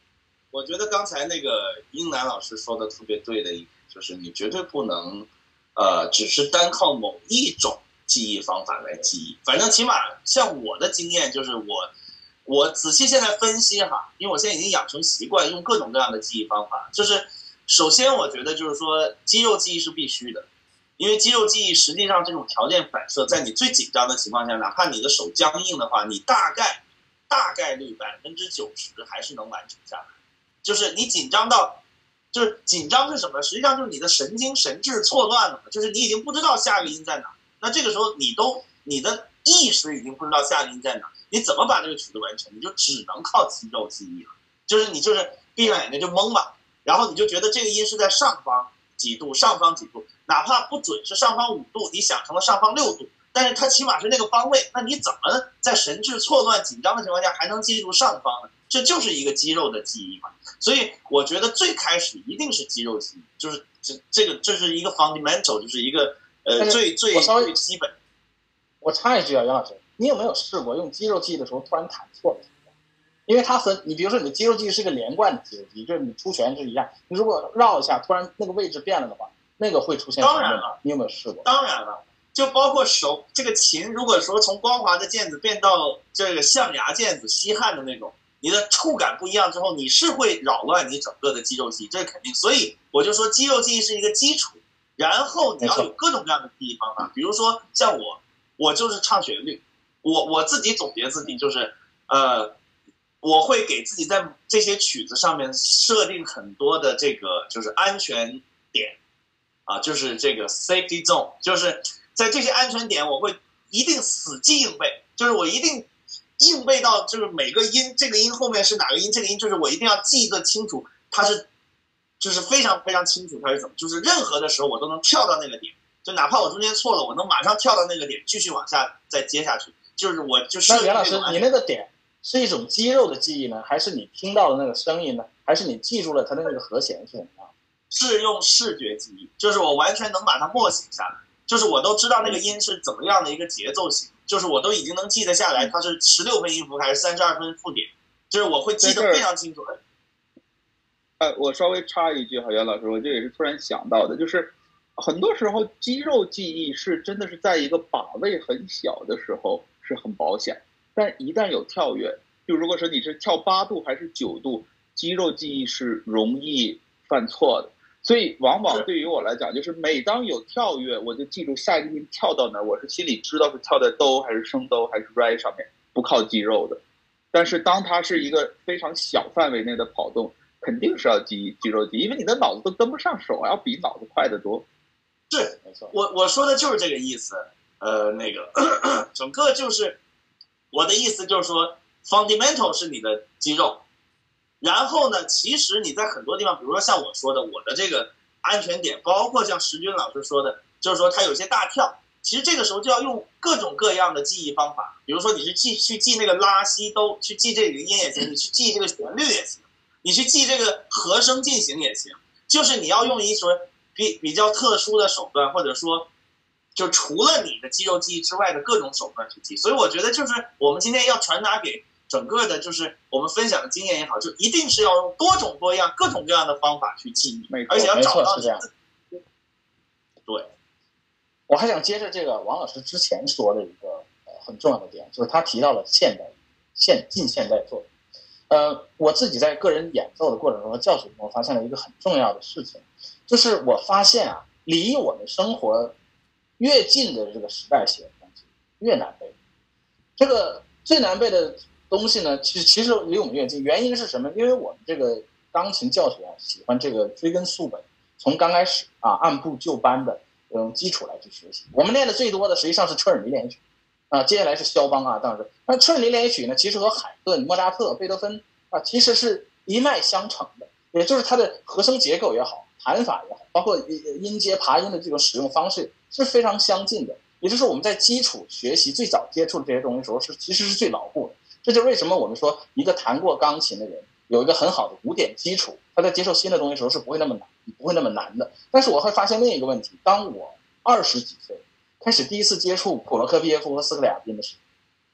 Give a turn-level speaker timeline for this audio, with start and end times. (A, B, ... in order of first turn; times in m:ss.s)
0:00.5-0:11.9 A
0:12.4-0:30.1 A
0:30.6-0:31.8 A
0:32.3-1:07.9 A
1:06.6-1:07.6 B
1:08.8-1:12.6 B
1:13.3-1:21.4 B
1:20.2-1:20.8 A
1:21.4-1:42.6 A
1:35.6-1:35.9 B
1:43.2-1:49.0 A
1:49.7-2:01.5 A
2:02.2-2:11.4 A
2:10.7-2:17.5 B
2:17.9-2:29.8 A
2:28.8-2:29.2 C
2:31.2-2:56.8 C
2:57.3-3:04.6 C
3:05.3-3:10.0 A
3:05.6-3:05.9 B
3:10.7-3:13.8 A
3:14.6-3:36.1 A
3:36.7-3:48.7 A
3:47.5-3:47.9 C
3:47.7-3:48.6 B
3:51.5-3:57.9 B
3:58.5-4:05.9 B
4:06.6-4:09.3 B
4:10.2-4:54.6 B